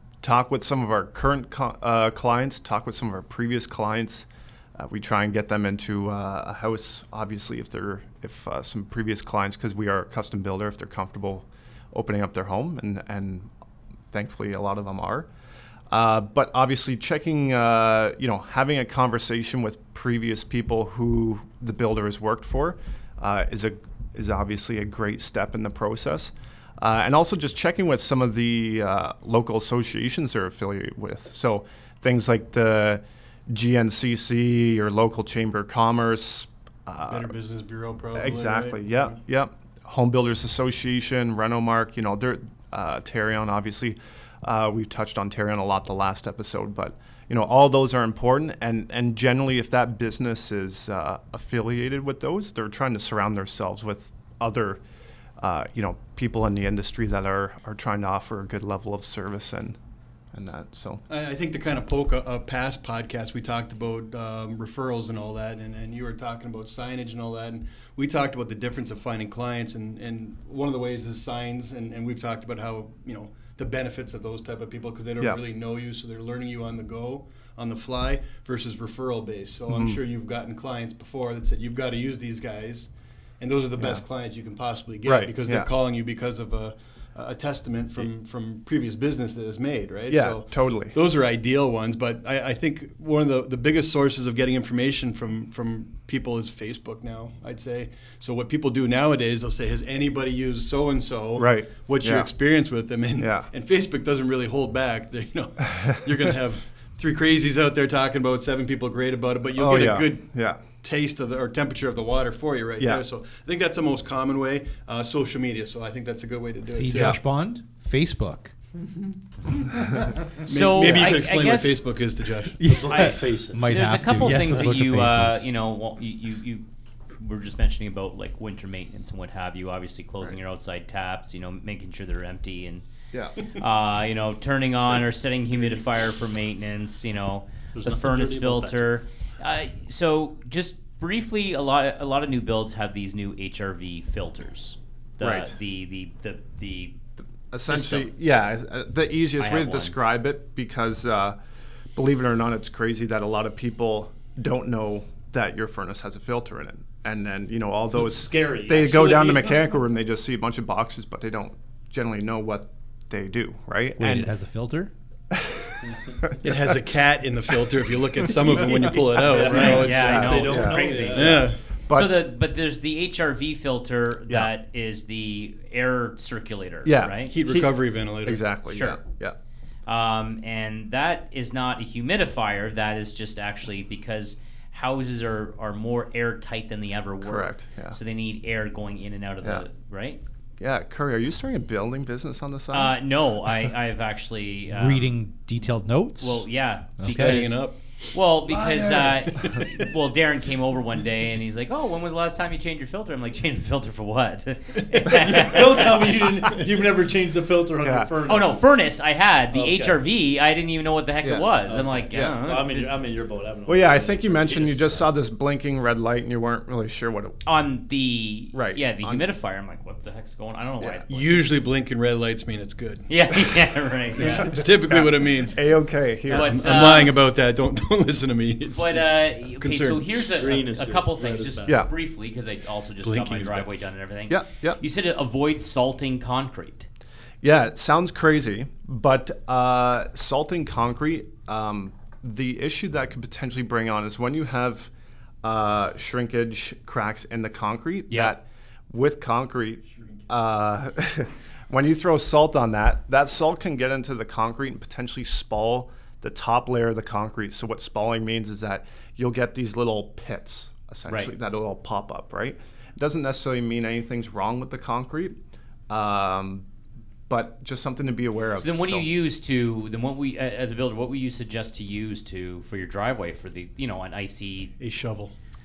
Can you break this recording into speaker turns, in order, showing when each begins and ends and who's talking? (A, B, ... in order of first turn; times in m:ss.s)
0:00.2-0:13.5 A
0:14.1-0:15.3 A
0:15.9-0:37.3 A
0:37.1-0:39.2 B
0:38.1-0:54.8 A
0:55.4-0:59.8 A
1:00.3-1:01.0 A
1:01.1-1:57.2 B
1:19.7-1:20.0 A
1:23.8-1:24.0 A
1:25.0-1:25.7 A
1:30.1-1:31.0 A
1:41.3-1:42.3 A
1:43.2-1:43.5 A
1:49.5-1:50.6 A
1:52.8-1:53.0 A
1:56.6-1:58.5 C
1:56.9-1:57.2 A
2:00.4-2:02.6 B
2:00.5-2:01.8 D
2:02.6-2:05.5 C
2:02.7-2:03.7 E
2:03.7-2:06.6 D
2:07.2-2:12.8 D
2:13.1-2:13.4 A
2:13.4-2:27.0 D
2:17.7-2:18.9 E
2:25.2-2:25.6 A
2:27.5-2:31.4 A
2:27.6-2:28.1 D
2:29.4-2:29.9 D
2:31.9-2:44.3 A
2:37.9-2:39.6 E
2:44.0-2:44.9 C
2:45.3-2:46.7 A
2:45.8-2:46.1 E
2:46.4-2:51.6 B
2:48.1-2:51.1 A
2:49.1-2:51.5 E
2:49.5-2:57.3 D
2:51.9-2:52.3 A
2:56.8-2:57.6 A
2:57.3-2:58.4 B
2:58.2-2:59.4 A
2:58.7-2:59.0 D
2:59.8-3:10.2 D
3:07.2-3:08.0 A
3:10.6-3:13.0 A
3:12.7-3:15.2 D
3:14.7-3:17.5 C
3:16.2-3:17.6 D
3:17.0-3:17.8 B
3:18.1-3:26.0 D
3:18.5-3:19.2 E
3:18.7-3:19.7 B
3:24.9-3:26.0 B
3:25.4-3:28.7 E
3:27.8-3:28.1 A
3:28.2-3:33.0 D
3:29.5-3:30.0 E
3:31.2-3:32.4 A
3:31.7-3:35.1 E
3:33.6-3:37.4 A
3:37.4-3:41.3 D
3:38.5-3:39.3 A
3:40.8-3:41.0 A
3:41.1-3:43.1 B
3:43.1-3:44.6 D
3:44.2-3:45.7 B
3:44.2-3:46.8 A
3:46.2-3:50.0 B
3:46.3-3:47.2 D
3:48.7-3:56.9 D
3:50.4-3:51.9 E
3:51.6-3:51.9 A
3:53.0-3:53.7 B
3:54.3-3:54.8 A
3:57.4-4:04.9 A
4:05.4-4:26.6 A
4:08.1-4:08.4 D
4:21.1-4:21.3 D
4:27.3-4:29.1 A
4:28.6-4:34.7 D
4:34.8-4:35.3 B